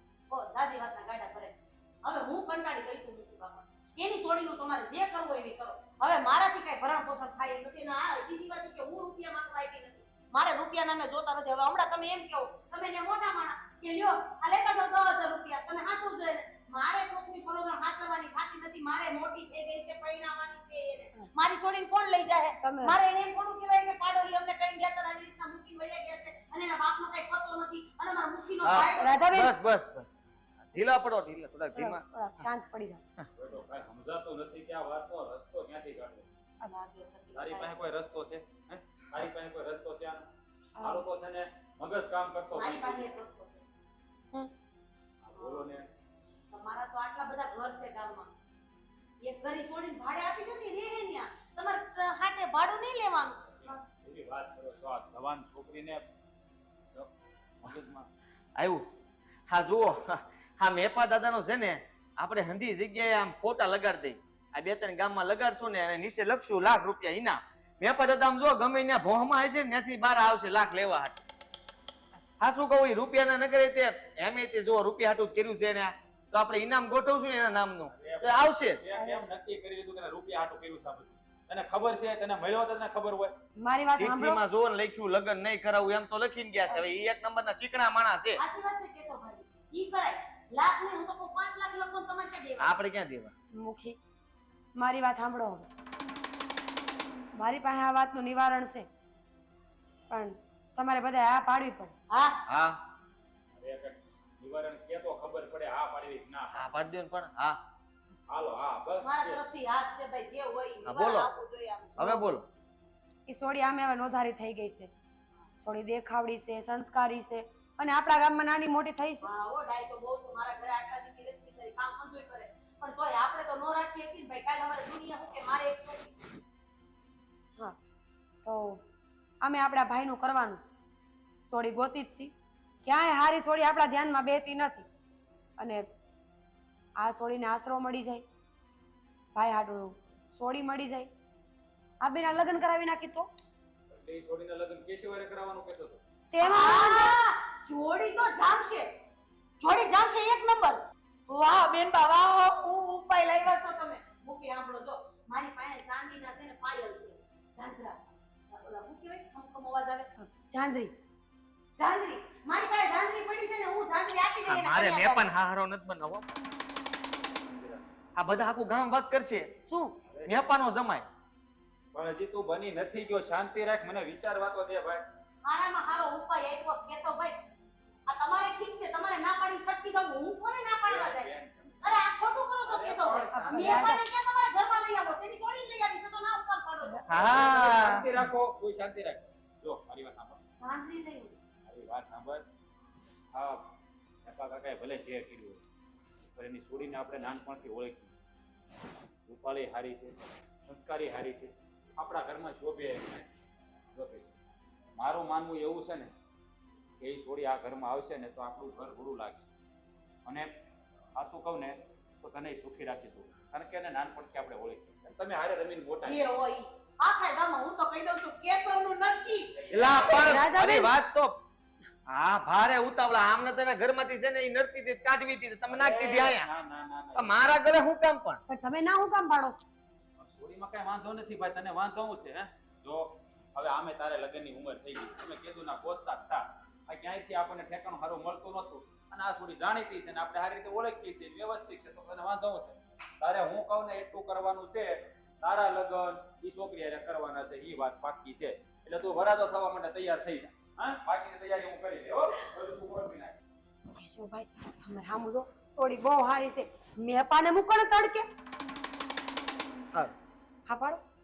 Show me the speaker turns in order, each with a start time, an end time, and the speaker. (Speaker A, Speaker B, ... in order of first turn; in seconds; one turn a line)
Speaker A: 0.3-29.2
Speaker B: 22.6-23.0
Speaker C: 28.6-30.2
Speaker B: 29.0-29.6
Speaker C: 30.7-32.5
Speaker B: 31.7-33.0
Speaker D: 33.4-36.3
Speaker A: 36.7-37.6
Speaker D: 37.4-40.2
Speaker B: 40.8-41.1
Speaker D: 40.8-43.0
Speaker A: 42.5-43.6
Speaker D: 45.2-45.9
Speaker A: 45.4-45.7
Speaker A: 46.5-48.3
Speaker A: 49.2-53.7
Speaker D: 53.6-56.0
Speaker D: 57.6-58.1
Speaker C: 58.5-58.8
Speaker C: 59.5-71.2
Speaker C: 72.4-78.9
Speaker D: 77.9-83.3
Speaker B: 78.9-79.2
Speaker B: 83.6-84.4
Speaker C: 83.9-88.4
Speaker A: 88.4-92.8
Speaker C: 92.6-93.3
Speaker B: 93.5-94.0
Speaker B: 94.8-95.7
Speaker B: 97.4-98.9
Speaker B: 100.1-101.9
Speaker A: 102.1-102.4
Speaker C: 102.5-102.8
Speaker D: 103.5-106.7
Speaker C: 106.5-107.6
Speaker D: 108.3-109.4
Speaker A: 109.0-112.3
Speaker C: 110.8-111.3
Speaker C: 112.0-112.5
Speaker B: 113.3-114.9
Speaker B: 115.6-119.3
Speaker A: 119.2-126.2
Speaker B: 128.4-128.8
Speaker B: 129.4-130.7
Speaker B: 131.4-132.3
Speaker B: 132.8-134.9
Speaker B: 135.6-135.8
Speaker B: 137.0-138.2
Speaker B: 139.3-141.1
Speaker B: 142.0-143.3
Speaker D: 143.9-146.0
Speaker B: 146.3-147.1
Speaker A: 146.4-148.9
Speaker A: 149.6-160.1
Speaker B: 160.2-160.9
Speaker A: 161.8-165.3
Speaker C: 164.5-166.2
Speaker D: 167.5-167.8
Speaker C: 168.2-169.5
Speaker D: 170.1-170.4
Speaker C: 170.2-171.1
Speaker D: 171.9-175.0
Speaker A: 175.4-177.3
Speaker A: 178.1-181.3
Speaker D: 180.9-182.1
Speaker A: 181.8-187.0
Speaker D: 182.6-183.9
Speaker B: 183.3-184.0
Speaker B: 186.9-187.2
Speaker C: 187.1-188.1
Speaker D: 187.1-190.4
Speaker A: 190.6-191.4
Speaker D: 191.7-192.4
Speaker D: 193.3-193.7
Speaker D: 194.2-195.6
Speaker D: 196.4-198.2
Speaker D: 199.2-203.3
Speaker D: 203.9-204.3
Speaker D: 205.0-206.1
Speaker D: 207.0-209.5
Speaker D: 211.1-216.2
Speaker A: 216.0-219.6
Speaker D: 219.5-220.4
Speaker C: 219.7-221.4
Speaker B: 220.0-220.9
Speaker C: 222.1-226.5
Speaker D: 225.7-227.6
Speaker C: 227.2-228.4
Speaker B: 228.5-229.6
Speaker D: 230.2-253.3
Speaker B: 253.9-258.3
Speaker B: 260.7-261.0